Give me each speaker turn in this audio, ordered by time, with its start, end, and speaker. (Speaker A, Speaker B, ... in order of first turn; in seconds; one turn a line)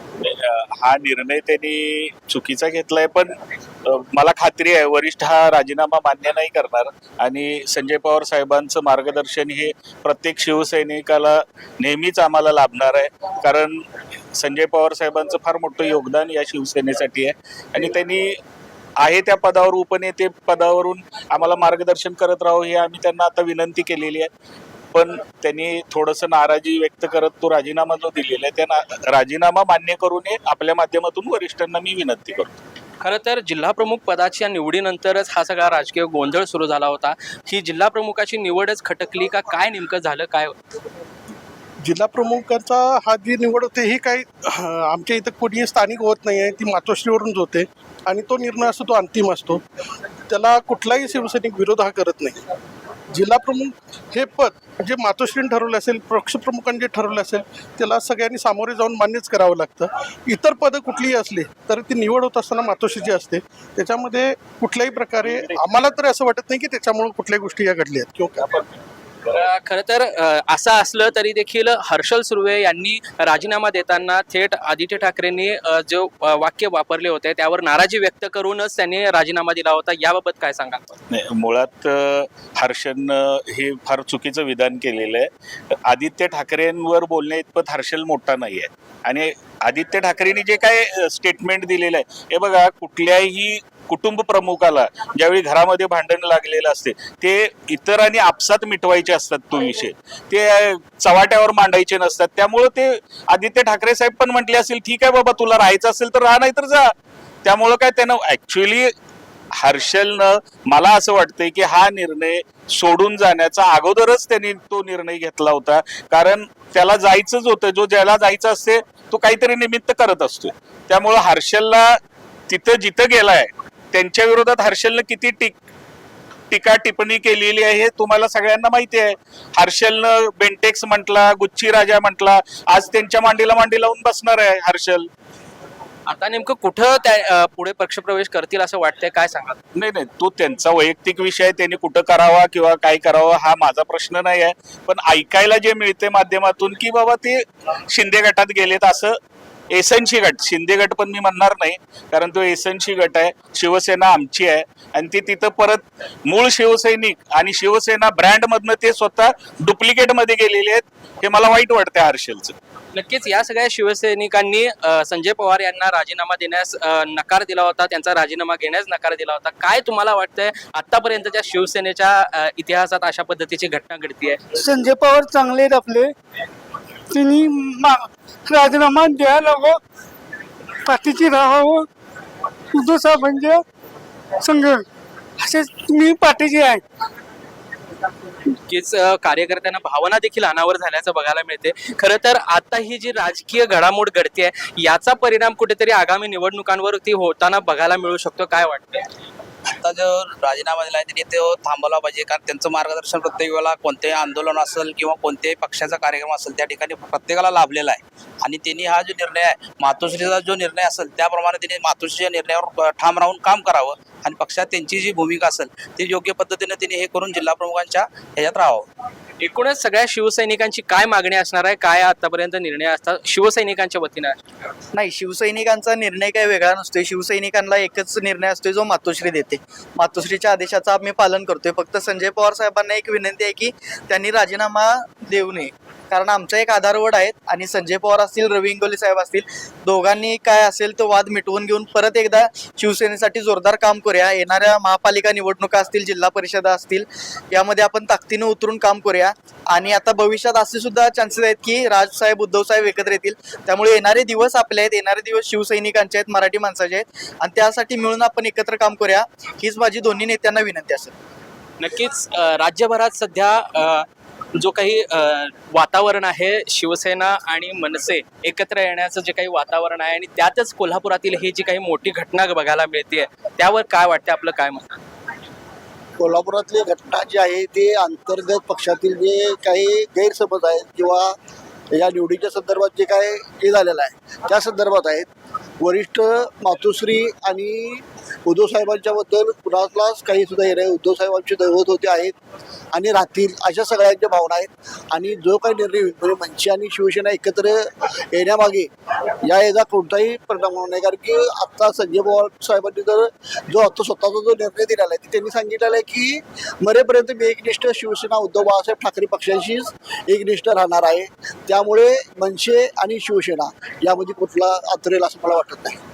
Speaker A: 0.2-3.3
Speaker A: 3.8-13.8
Speaker A: 14.3-18.3
Speaker A: 19.0-24.3
Speaker A: 24.9-32.6
Speaker B: 33.0-40.5
Speaker C: 41.8-49.6
Speaker C: 50.3-52.4
Speaker C: 53.1-68.7
Speaker B: 69.3-80.8
Speaker A: 81.1-85.3
Speaker A: 85.8-106.9
Speaker A: 107.4-108.9
Speaker A: 109.6-121.9
Speaker A: 122.5-125.6
Speaker A: 126.5-135.1
Speaker B: 136.1-139.6
Speaker A: 139.7-149.2
Speaker A: 149.7-162.5
Speaker B: 162.9-174.4
Speaker D: 174.6-176.1
Speaker D: 177.1-179.8
Speaker D: 180.8-181.9
Speaker D: 182.7-183.6
Speaker D: 184.4-184.8
Speaker D: 185.4-186.8
Speaker B: 188.7-199.0
Speaker E: 199.8-218.8
Speaker B: 219.4-224.4
Speaker F: 224.9-261.1
Speaker B: 261.8-275.0
Speaker G: 276.2-281.4
Speaker G: 281.9-285.3
Speaker G: 285.8-292.3
Speaker G: 292.9-298.9
Speaker G: 299.4-316.0